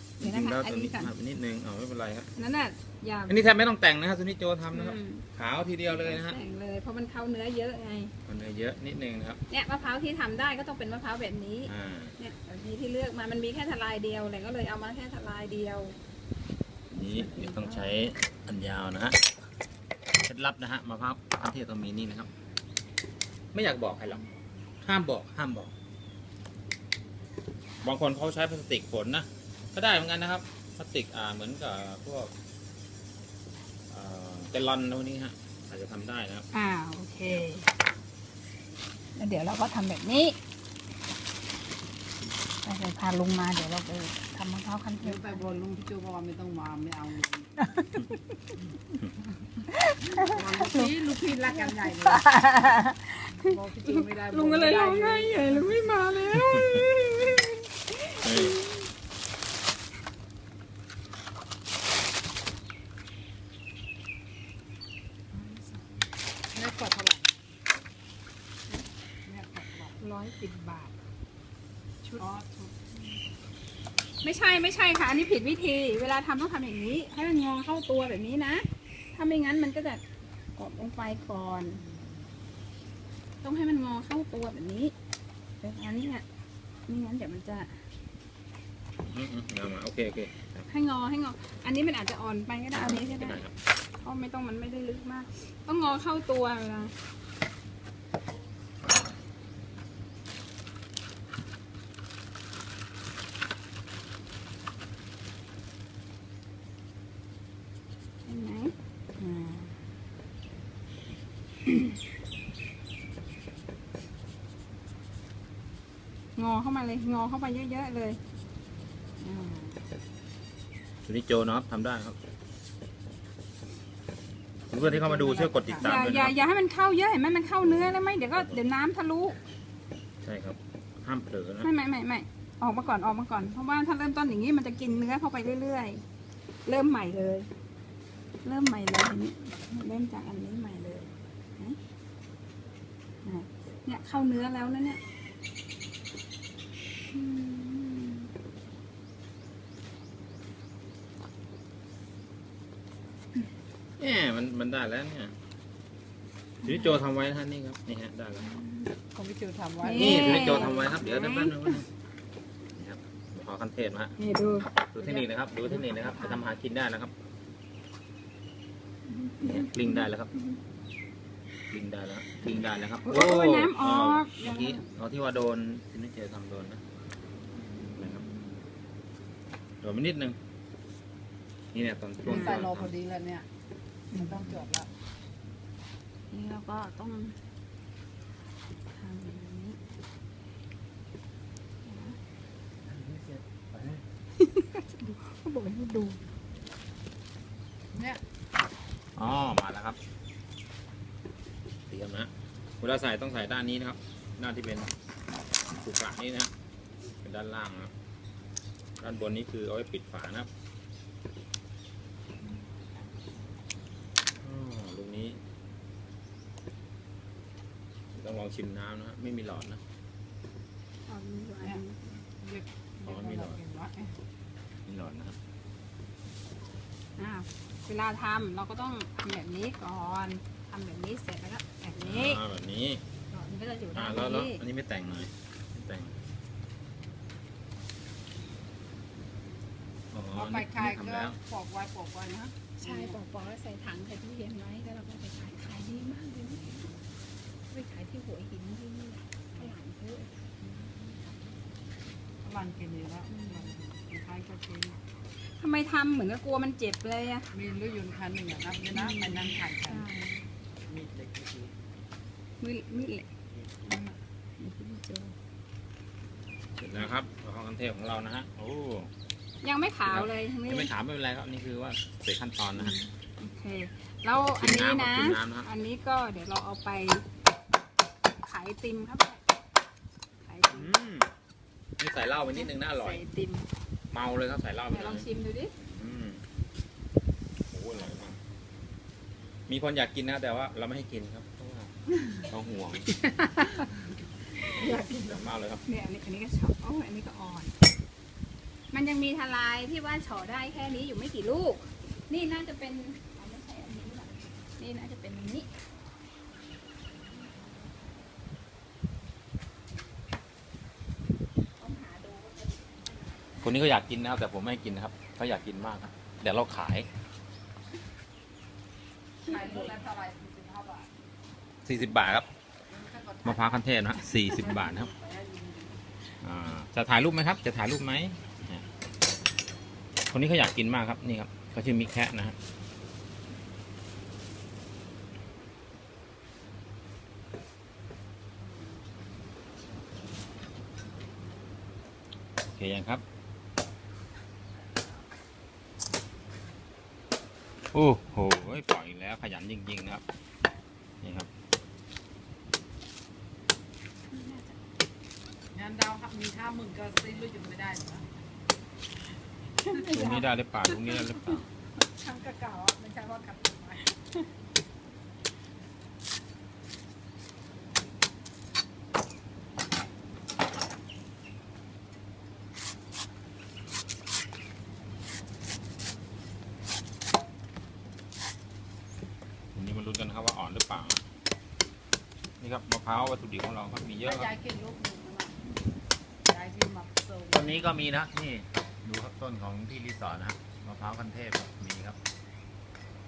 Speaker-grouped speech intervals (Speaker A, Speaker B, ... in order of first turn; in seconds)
Speaker A: 0.2-2.3, 3.3-6.4, 8.3-9.4, 11.7-12.2, 16.9-19.2, 20.2-22.3, 23.5-24.2, 24.8-25.7, 27.8-32.3, 33.9-36.5, 56.5-56.8, 58.2-58.6, 89.0-90.5, 92.7-93.5, 121.1-122.2, 124.7-126.5, 127.6-128.6, 130.2-131.7, 154.0-155.3, 156.6-158.5, 159.9-161.9, 162.8-164.2, 164.8-167.1, 169.4-170.3, 171.7-176.8, 178.0-178.2, 179.8-180.4, 181.7-182.9, 192.9-194.0, 199.2-200.0, 201.9-204.9, 205.8-206.5, 207.2-207.9, 209.0-210.5, 214.4-215.4, 218.1-219.8, 223.1-223.6, 224.9-225.4, 232.0-233.0, 233.9-236.1, 240.1-241.4, 261.1-261.5, 266.8-269.1, 270.1-273.0, 274.6-275.7, 280.7-281.3, 282.0-283.2, 284.1-286.4, 287.7-288.4, 289.7-291.9, 292.5-293.1, 294.7-295.8, 313.6-317.1, 321.9-322.5, 323.4-325.1, 326.4-328.9, 330.3-332.6, 342.6-343.2, 347.9-350.2, 351.2-351.5, 360.1-361.7, 379.8-381.2, 382.6-384.5, 387.5-392.2
Speaker B: 0.2-1.1, 2.3-3.5, 4.7-5.3, 5.9-8.1, 9.5-16.0, 17.1-18.0, 36.5-37.7, 39.2-40.4, 42.6-45.5, 47.6-48.5, 49.7-58.9, 70.0-71.0, 74.2-80.0, 80.6-81.8, 83.4-85.0, 85.6-86.2, 86.9-87.8, 90.7-93.5, 94.0-96.9, 108.3-109.8, 111.7-112.0, 116.4-118.2, 119.2-119.8, 125.8-129.4, 131.6-136.0, 136.7-137.5, 138.4-141.8, 143.2-145.0, 147.1-148.3, 156.6-157.0, 158.4-158.9, 159.8-161.8, 164.2-164.7, 165.6-166.5, 169.1-170.5, 173.0-174.9, 177.6-178.6, 182.3-182.6, 184.1-184.5, 186.3-187.3, 188.9-189.8, 191.8-192.2, 194.4-196.2, 221.1-222.1, 227.2-232.4, 233.3-234.6, 242.8-246.9, 247.7-251.4, 253.3-253.8, 255.4-257.5, 258.9-260.5, 262.6-263.3, 263.9-265.4, 269.6-270.9, 272.8-277.3, 278.4-279.4, 280.4-280.9, 282.5-283.6, 284.9-285.7, 294.6-295.3, 295.9-297.8, 298.9-305.7, 311.8-313.6, 319.4-320.0, 354.3-354.8, 359.8-361.6, 362.2-364.4
Speaker C: 45.0-47.6, 50.1-52.3, 53.4-55.9, 66.5-67.4, 69.2-70.0, 72.2-72.8, 81.8-82.2, 124.7-125.9, 159.1-161.0, 165.0-165.3, 182.2-183.5, 184.1-184.9, 197.9-198.2, 222.4-224.1, 240.3-243.2, 252.4-255.0, 257.5-260.1, 293.2-293.9, 294.6-295.4, 319.4-321.1, 322.9-323.9, 324.5-326.0, 355.7-358.3, 362.3-363.7, 384.2-385.6, 386.5-387.8